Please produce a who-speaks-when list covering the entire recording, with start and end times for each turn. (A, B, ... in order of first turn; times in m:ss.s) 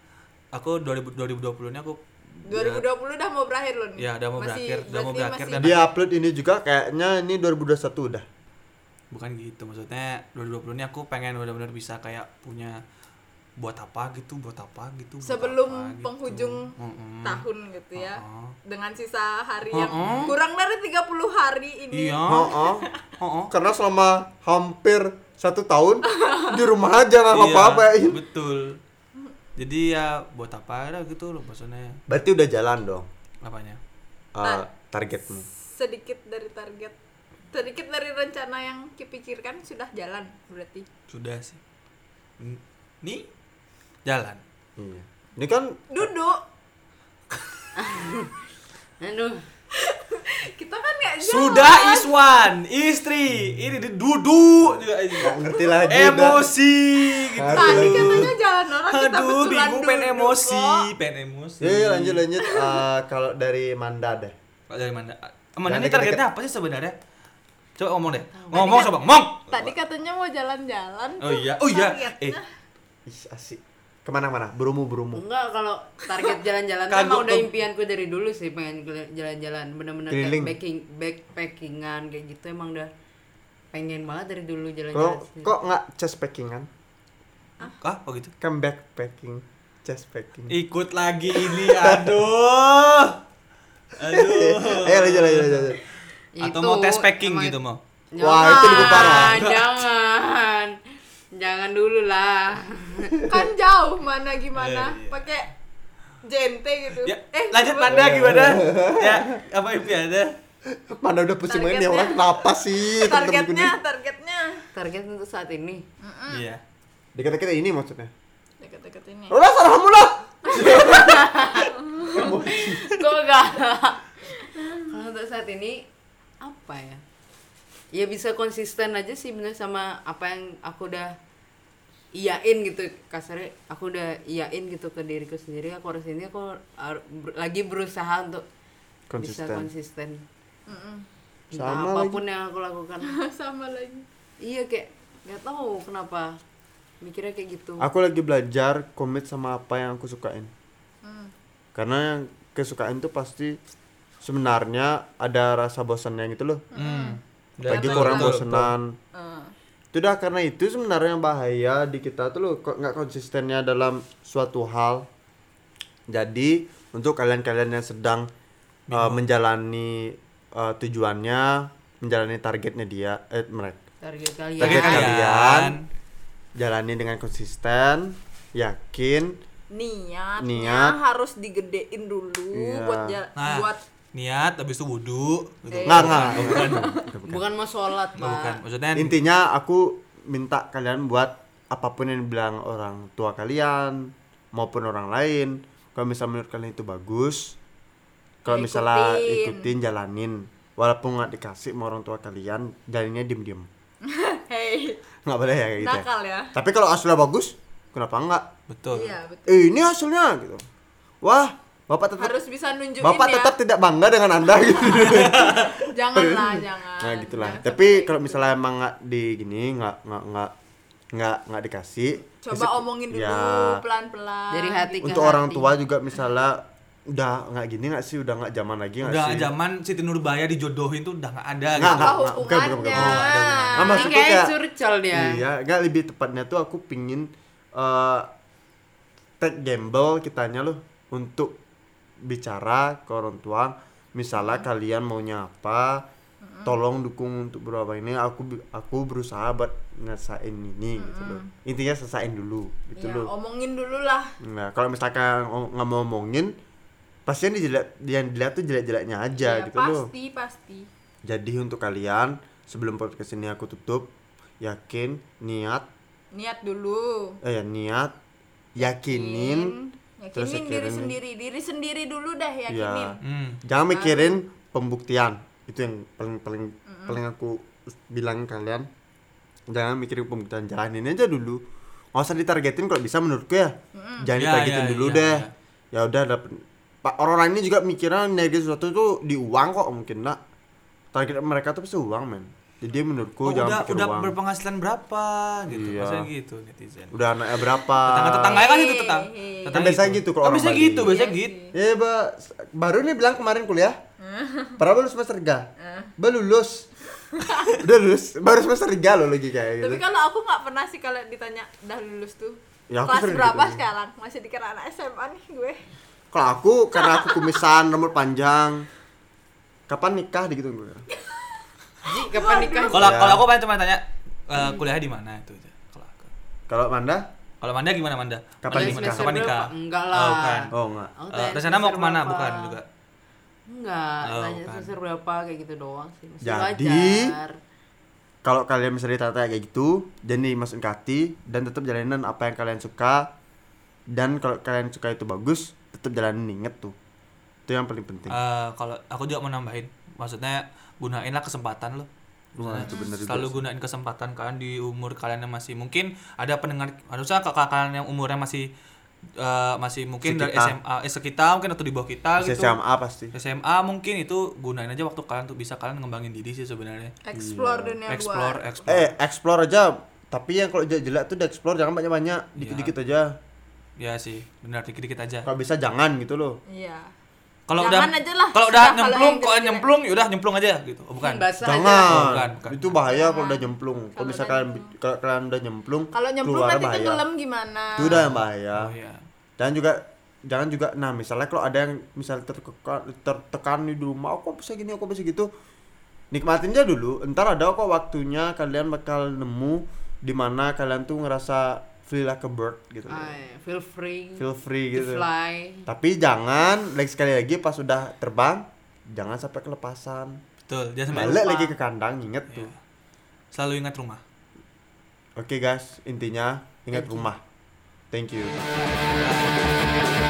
0:00.5-0:02.8 A
0:02.5-0:05.8 B
0:04.0-0:05.8 A
0:05.6-0:08.3 C
0:09.1-0:12.8 A
0:13.6-0:17.4 A
0:15.2-0:16.7 B
0:17.2-0:22.9 B
0:18.0-0:18.6 A
0:19.7-0:20.4 A
0:21.9-0:22.6 A
0:22.2-0:22.9 C
0:23.2-0:23.5 A
0:23.5-0:28.2 C
0:26.1-0:26.6 B
0:27.3-0:28.8 A
0:29.6-0:32.0 A
0:32.1-0:33.1 C
0:33.4-0:33.8 A
0:34.3-0:35.5 C
0:35.6-0:37.0 B
0:37.5-0:40.9 B
0:41.1-0:41.6 A
0:42.4-0:43.3 A
0:44.0-0:44.4 A
0:44.8-0:46.1 C
0:45.9-0:46.4 B
0:47.8-0:48.4 D
0:49.0-0:49.4 D
0:49.8-0:52.1 B
0:51.2-1:02.2 A
0:55.2-0:56.4 C
0:57.4-0:58.3 C
0:57.5-1:00.9 B
1:01.6-1:04.4 C
1:02.4-1:02.8 B
1:04.7-1:07.0 A
1:05.7-1:06.2 C
1:07.8-1:09.5 A
1:08.3-1:08.9 D
1:08.6-1:08.9 B
1:09.5-1:12.5 B
1:11.2-1:12.4 A
1:13.1-1:15.2 C
1:15.1-1:22.9 D
1:16.9-1:17.5 A
1:20.1-1:20.6 C
1:23.7-1:25.5 D
1:24.9-1:26.7 C
1:27.6-1:28.3 A
1:28.4-1:30.6 C
1:30.5-1:33.2 A
1:31.5-1:32.3 C
1:34.0-1:35.8 A
1:34.1-1:35.8 C
1:36.4-1:37.6 D
1:36.4-1:37.8 A
1:38.1-1:40.8 D
1:38.2-1:39.4 C
1:38.3-1:39.4 B
1:38.8-1:39.8 A
1:41.3-1:43.2 D
1:43.3-1:45.5 B
1:44.5-1:45.3 A
1:46.2-1:48.1 B
1:47.0-1:50.3 A
1:47.9-1:49.4 C
1:50.7-1:53.8 C
1:51.5-1:54.6 B
1:54.7-1:55.8 D
1:56.0-1:56.5 B
1:56.3-1:56.6 A
1:57.2-1:58.1 C
1:58.6-1:59.4 B
1:59.3-2:02.9 C
2:00.5-2:01.2 B
2:00.8-2:05.9 D
2:01.9-2:02.4 B
2:06.4-2:07.0 D
2:07.9-2:11.2 D
2:12.2-2:18.4 D
2:19.1-2:19.7 C
2:19.2-2:20.2 D
2:20.7-2:21.1 B
2:21.5-2:23.2 D
2:21.5-2:22.2 C
2:23.0-2:24.1 B
2:24.4-2:26.4 D
2:27.0-2:27.9 D
2:27.8-2:30.5 C
2:31.0-2:31.3 B
2:31.8-2:33.6 C
2:34.2-2:36.6 C
2:36.7-2:38.3 B
2:36.8-2:38.8 A
2:37.6-2:39.0 C
2:39.1-2:39.6 B
2:39.9-2:45.1 C
2:46.1-2:48.3 C
2:48.9-2:49.2 A
2:48.9-2:53.8 C
2:54.0-2:55.2 D
2:54.6-2:55.8 C
2:54.6-2:55.9 A
2:56.6-2:59.4 C
2:59.7-3:03.8 B
3:00.4-3:01.0 C
3:02.5-3:03.2 C
3:03.4-3:07.0 A
3:05.7-3:07.0 B
3:05.9-3:07.4 C
3:07.2-3:08.6 D
3:08.2-3:09.2 A
3:08.9-3:17.6 C
3:18.4-3:23.7 C
3:18.5-3:19.7 B
3:24.0-3:25.0 B
3:25.3-3:28.4 C
3:25.8-3:26.5 B
3:28.7-3:29.2 A
3:28.9-3:29.6 B
3:29.5-3:30.6 C
3:31.2-3:32.3 C
3:32.2-3:33.5 B
3:33.0-3:40.5 C
3:35.1-3:35.7 A
3:35.6-3:38.5 B
3:41.1-3:43.8 C
3:42.4-3:45.4 B
3:44.5-3:45.7 D
3:45.0-3:49.5 C
3:49.0-3:52.2 A
3:51.8-3:54.5 C
3:51.9-3:54.0 B
3:52.8-3:54.0 A
3:53.8-3:55.4 D
3:55.1-3:58.3 C
3:59.4-4:01.6 C
4:02.2-4:06.0 C
4:04.4-4:04.7 B
4:06.4-4:06.8 B
4:06.6-4:13.3 C
4:11.0-4:11.5 B
4:13.0-4:14.3 B
4:14.4-4:16.5 C
4:17.3-4:20.1 C
4:19.4-4:20.9 B
4:21.3-4:24.1 C
4:24.6-4:25.9 C
4:26.3-4:27.4 B
4:27.4-4:28.2 C
4:28.8-4:29.7 C
4:29.1-4:33.2 B
4:30.4-4:31.2 C
4:32.7-4:38.9 C
4:33.2-4:33.6 A
4:33.9-4:34.4 B
4:36.9-4:37.2 B
4:39.7-4:41.6 C
4:42.2-4:50.4 C
4:43.9-4:44.3 B
4:44.4-4:45.5 A
4:51.1-4:54.4 C
4:53.4-4:57.2 A
4:55.7-4:56.3 C
4:57.1-4:58.6 C
4:58.0-5:01.6 A
4:58.5-4:59.9 B
4:59.7-5:01.2 C
5:01.1-5:01.8 B
5:01.7-5:04.0 C
5:04.2-5:04.8 B
5:04.8-5:06.9 C
5:05.8-5:06.1 B
5:07.3-5:07.8 B
5:07.8-5:10.0 C
5:09.8-5:15.8 B
5:12.9-5:13.8 C
5:16.3-5:18.9 C
5:17.0-5:17.6 B
5:19.9-5:21.1 C
5:21.1-5:21.4 B
5:22.0-5:23.1 D
5:22.3-5:23.1 B
5:22.9-5:26.3 A
5:23.0-5:23.5 C
5:26.7-5:27.3 C
5:27.6-5:30.7 A
5:28.6-5:29.4 C
5:28.7-5:32.8 D
5:30.7-5:31.1 C
5:31.3-5:32.8 A
5:33.7-5:37.6 D
5:34.2-5:34.9 A
5:36.4-5:37.3 C
5:38.4-5:43.3 C
5:44.1-5:47.0 C
5:47.7-5:48.4 C
5:48.3-5:58.7 A
5:52.6-5:53.7 C
5:59.4-6:02.8 A
6:00.2-6:00.8 C
6:02.4-6:03.3 C
6:03.3-6:07.1 A
6:07.2-6:08.9 B
6:07.3-6:08.0 C
6:08.1-6:09.1 A
6:08.9-6:13.4 C
6:12.6-6:12.9 A
6:14.0-6:15.5 A
6:15.4-6:16.6 C
6:16.7-6:17.1 B
6:17.7-6:23.0 A
6:17.8-6:19.9 B
6:21.2-6:22.3 D
6:21.6-6:27.2 C
6:23.1-6:24.9 B
6:26.1-6:28.2 B
6:28.0-6:28.9 C
6:28.0-6:29.2 A
6:29.6-6:35.5 C
6:36.3-6:43.4 C
6:43.1-6:45.9 D
6:44.4-6:45.2 C
6:45.9-6:50.4 C
6:50.7-6:51.8 A
6:51.1-6:52.7 C
6:52.5-6:52.8 A
6:53.5-6:54.2 A
6:55.4-6:57.4 C
6:57.0-6:57.2 D
6:58.1-6:58.6 C
6:58.8-6:59.9 A